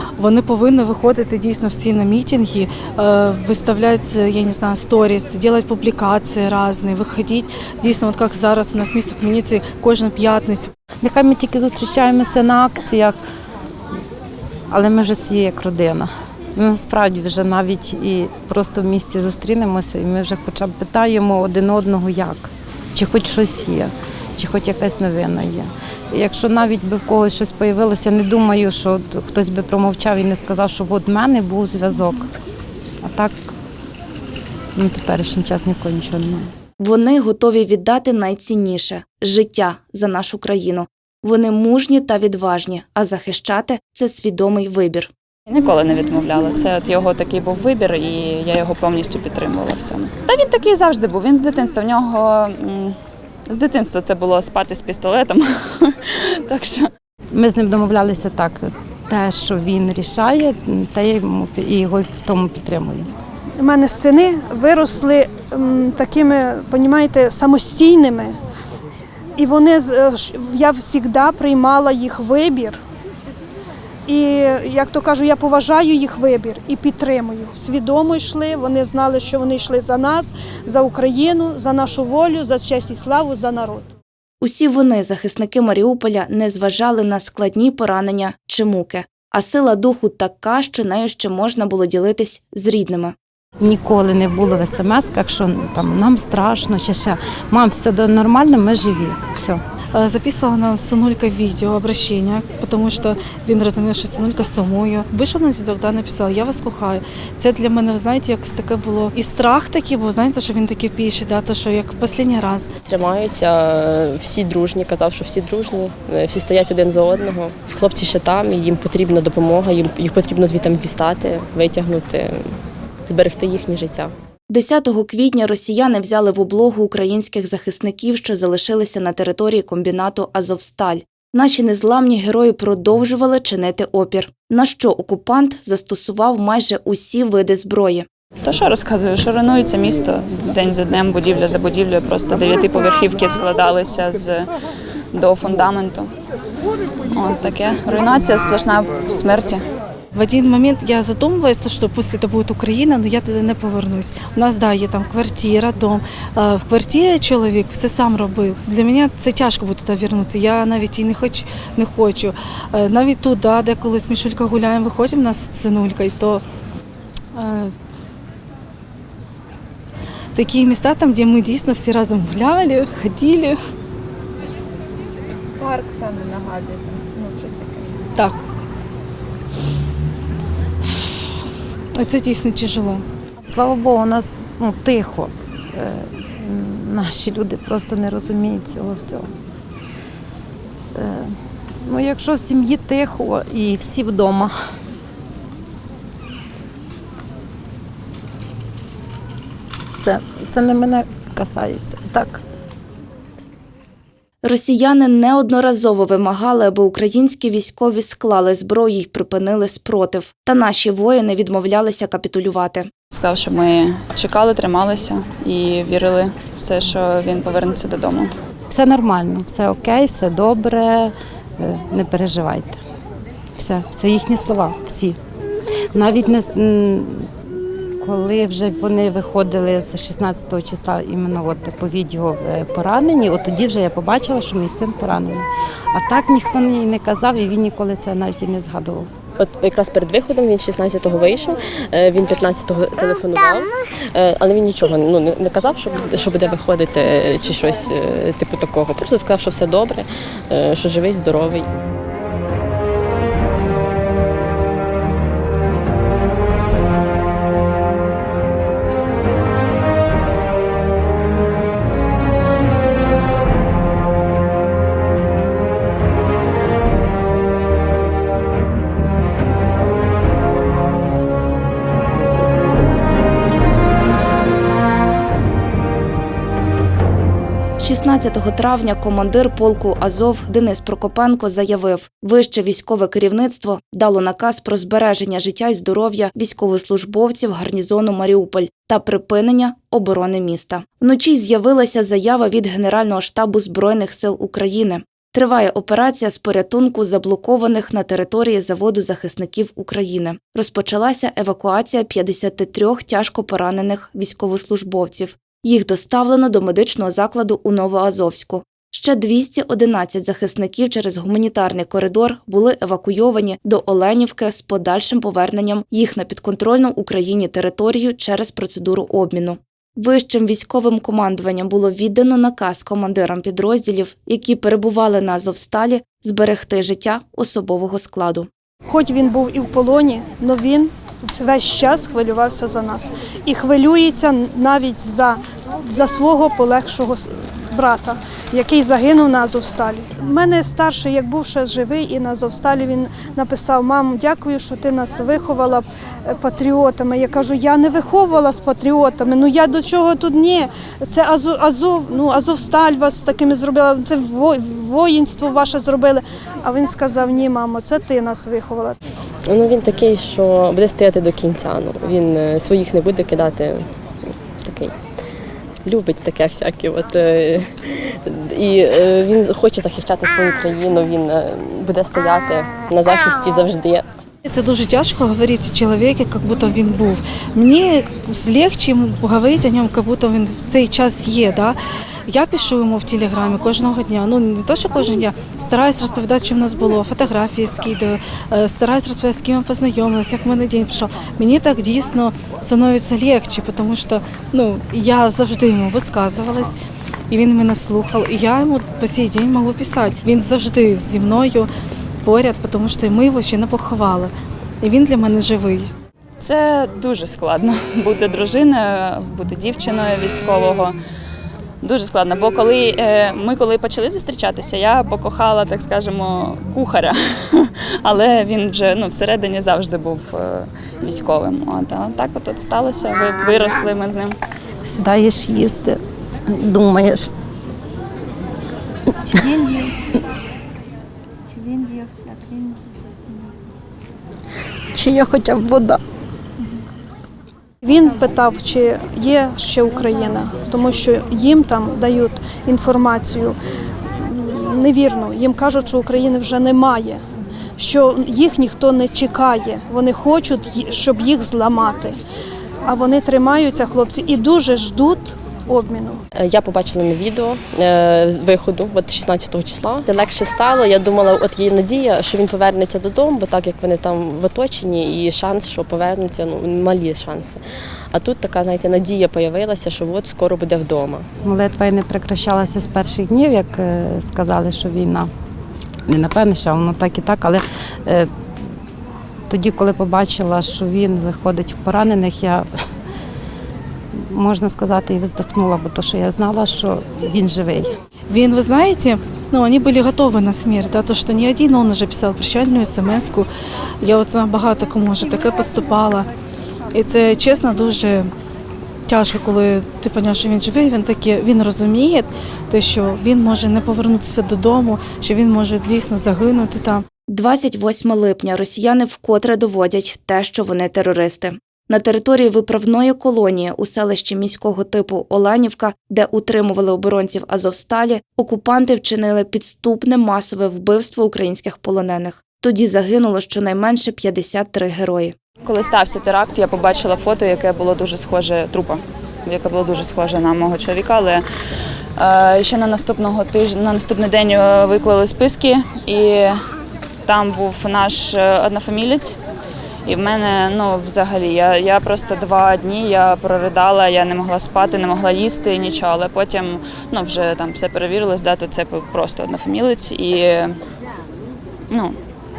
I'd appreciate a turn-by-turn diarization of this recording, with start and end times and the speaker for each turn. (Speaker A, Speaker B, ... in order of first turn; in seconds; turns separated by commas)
Speaker A: 0.2-10.7, Speaker B: 11.0-13.2, Speaker B: 14.7-32.3, Speaker B: 33.0-33.4, Speaker B: 34.8-36.5, Speaker C: 36.8-45.1, Speaker D: 45.5-53.0, Speaker D: 53.5-56.9, Speaker B: 57.3-63.1, Speaker E: 63.6-68.4, Speaker E: 69.4-72.8, Speaker E: 74.1-83.9, Speaker C: 84.4-93.2, Speaker B: 93.6-99.6, Speaker A: 99.9-112.7, Speaker F: 112.9-124.1, Speaker C: 124.5-138.1, Speaker D: 138.4-144.5, Speaker D: 145.1-146.1, Speaker D: 147.1-149.6, Speaker A: 150.1-166.4, Speaker A: 167.3-167.7, Speaker A: 170.3-173.6, Speaker G: 175.6-177.9, Speaker A: 181.9-183.1, Speaker B: 183.4-189.3, Speaker B: 190.9-194.5, Speaker B: 200.0-202.4, Speaker C: 204.4-212.9, Speaker D: 213.1-218.3, Speaker B: 218.7-222.8, Speaker B: 223.6-225.2, Speaker B: 225.9-227.5, Speaker B: 228.0-239.1, Speaker F: 239.4-251.7, Speaker C: 277.8-328.5, Speaker E: 328.9-359.0, Speaker F: 359.4-365.0, Speaker F: 365.8-374.1, Speaker A: 374.4-396.8, Speaker A: 397.3-401.7, Speaker A: 402.2-405.9, Speaker D: 406.4-410.9, Speaker D: 411.8-424.4, Speaker B: 424.8-427.3, Speaker B: 429.3-430.1, Speaker B: 431.6-432.4, Speaker B: 434.9-436.0, Speaker E: 437.8-443.6, Speaker E: 444.1-447.2, Speaker E: 447.8-452.2, Speaker E: 452.9-456.2, Speaker F: 456.3-467.6, Speaker F: 468.1-471.3, Speaker B: 471.4-475.3, Speaker B: 476.1-478.3, Speaker B: 479.5-482.7, Speaker B: 484.1-487.9, Speaker A: 488.3-493.5, Speaker A: 494.0-496.3, Speaker A: 496.9-498.3, Speaker A: 499.1-507.1, Speaker C: 507.3-525.4, Speaker D: 525.6-531.4, Speaker D: 532.2-536.7, Speaker D: 537.3-539.4, Speaker D: 540.0-550.8, Speaker D: 551.9-552.1